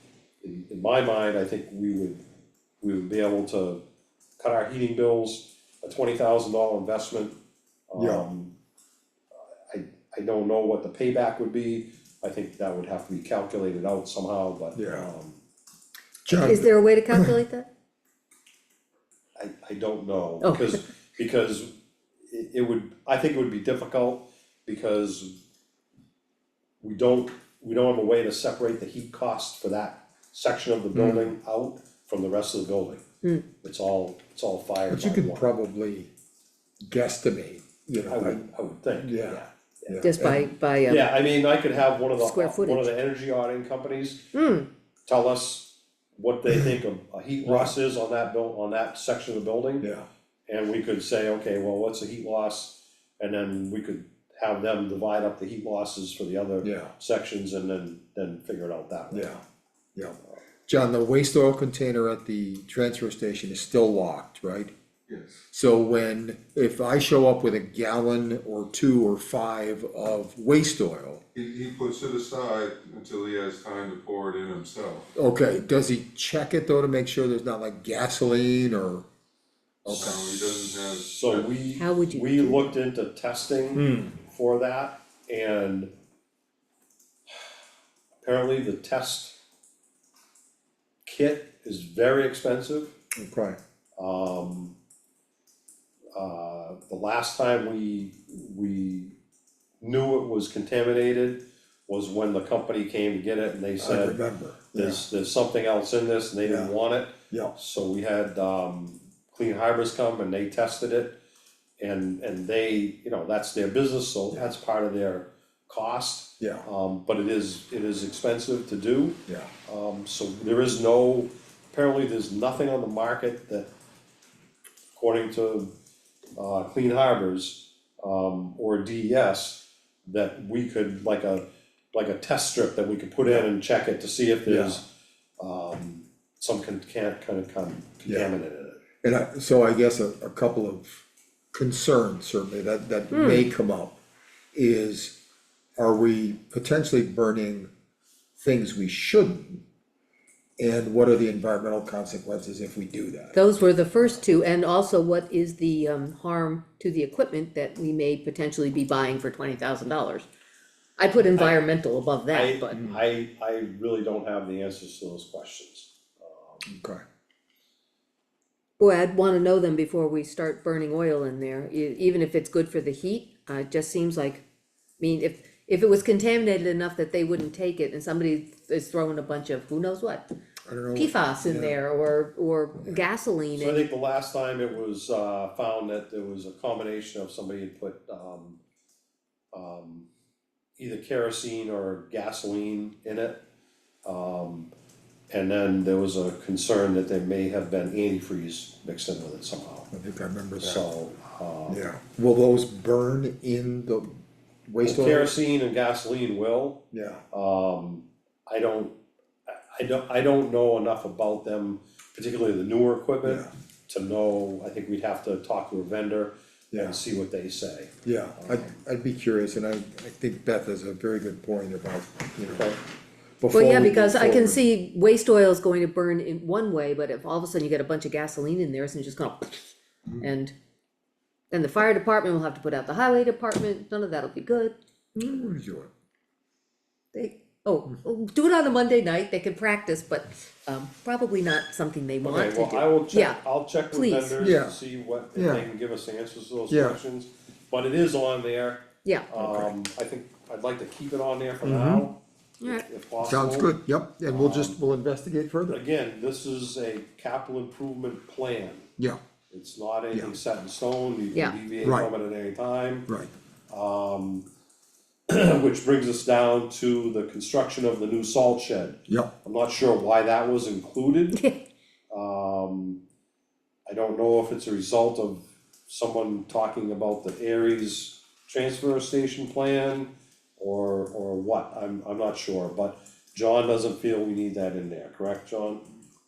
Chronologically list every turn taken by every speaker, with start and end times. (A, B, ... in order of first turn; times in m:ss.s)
0:00.4-0:02.2 A
0:02.8-0:03.8 A
0:04.4-0:07.4 A
0:07.9-0:08.6 A
0:08.0-0:08.3 B
0:09.7-0:15.4 A
0:14.8-0:15.1 B
0:16.2-0:17.4 B
0:16.3-0:17.7 C
0:19.4-0:21.7 A
0:20.4-0:20.8 C
0:22.3-0:25.4 A
0:26.8-0:33.0 A
0:30.9-0:31.4 B
0:33.6-0:35.5 A
0:34.9-0:36.1 B
0:36.9-0:40.5 B
0:38.1-0:40.1 A
0:40.0-0:41.1 C
0:40.9-0:44.3 A
0:42.2-0:42.9 C
0:44.3-0:44.7 C
0:45.1-0:49.9 A
0:47.4-0:47.7 B
0:49.8-0:50.1 B
0:50.5-0:59.4 A
0:56.6-0:56.9 B
0:59.1-0:59.4 B
1:00.0-1:04.7 B
1:05.1-1:05.4 D
1:05.5-1:11.2 B
1:11.4-1:15.1 D
1:15.2-1:19.1 B
1:19.8-1:20.2 A
1:19.8-1:20.2 B
1:19.9-1:21.5 D
1:21.0-1:25.9 A
1:21.8-1:22.8 C
1:23.8-1:24.1 B
1:28.2-1:29.4 A
1:31.0-1:33.0 A
1:33.2-1:33.6 B
1:34.0-1:34.8 A
1:36.2-1:39.2 A
1:39.8-1:44.2 A
1:43.8-1:45.0 B
1:44.7-1:51.2 A
1:46.4-1:46.7 B
1:47.3-1:47.6 B
1:51.8-2:03.7 A
1:56.4-1:56.6 B
1:59.3-1:59.5 B
2:05.0-2:05.7 A
2:06.4-2:14.9 A
2:13.2-2:13.5 B
2:14.5-2:14.8 B
2:15.4-2:18.8 A
2:18.1-2:18.3 B
2:19.0-2:24.0 B
2:23.1-2:23.5 C
2:24.5-2:25.2 B
2:25.8-2:27.7 B
2:28.4-2:29.6 B
2:30.6-2:33.4 B
2:33.4-2:40.3 C
2:41.0-2:42.8 C
2:41.3-2:41.6 A
2:42.3-2:46.7 A
2:42.8-2:43.0 B
2:46.7-2:47.0 B
2:48.8-2:54.4 C
2:55.0-3:00.3 C
3:00.7-3:01.8 B
3:00.9-3:03.9 C
3:03.6-3:08.6 A
3:09.5-3:10.1 A
3:10.8-3:13.4 A
3:14.0-3:14.7 A
3:15.3-3:19.9 A
3:19.9-3:20.9 B
3:20.6-3:21.8 A
3:21.7-3:25.3 B
3:24.8-3:38.7 A
3:26.9-3:27.2 B
3:33.2-3:33.5 B
3:36.7-3:37.0 B
3:38.0-3:42.8 B
3:43.4-3:44.6 B
3:43.5-3:50.5 C
3:51.5-3:54.8 C
3:55.2-3:55.9 B
3:57.1-4:03.4 C
4:02.2-4:13.7 A
4:03.9-4:04.4 C
4:04.4-4:04.8 B
4:05.4-4:05.7 B
4:06.7-4:07.0 B
4:09.4-4:09.7 B
4:11.6-4:12.1 B
4:13.2-4:15.8 B
4:14.3-4:14.8 A
4:15.7-4:18.9 A
4:19.5-4:23.1 A
4:21.8-4:22.1 B
4:23.7-4:24.5 A
4:25.3-4:31.4 A
4:31.3-4:31.6 C
4:32.1-4:33.0 A
4:33.9-4:45.8 A